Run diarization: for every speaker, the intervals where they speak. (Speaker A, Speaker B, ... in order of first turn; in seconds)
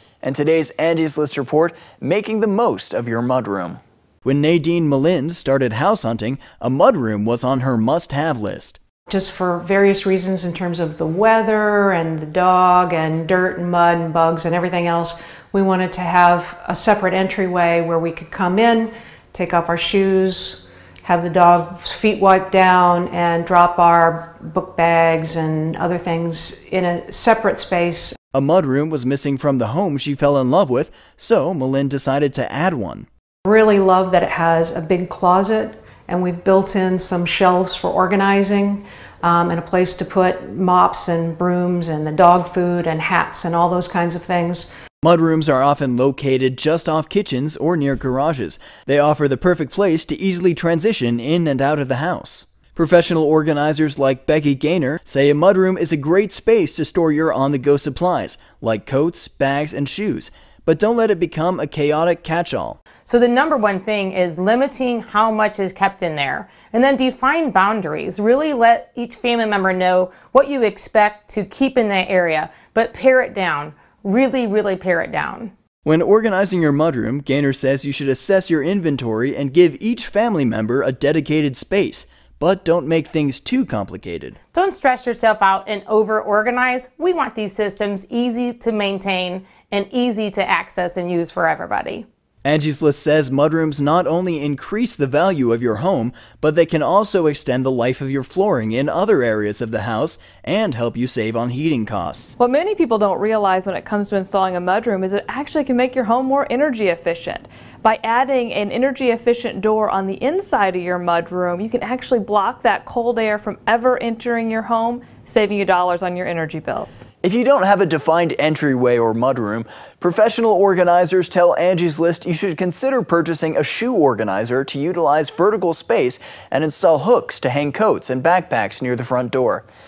Speaker A: 0.2-8.8, 28.3-33.1, 45.0-62.8, 75.8-84.4, 92.4-102.3, 117.2-129.6
Speaker B: 9.1-28.1, 33.5-44.7
Speaker C: 63.0-75.5, 84.5-92.0
Speaker D: 102.4-117.0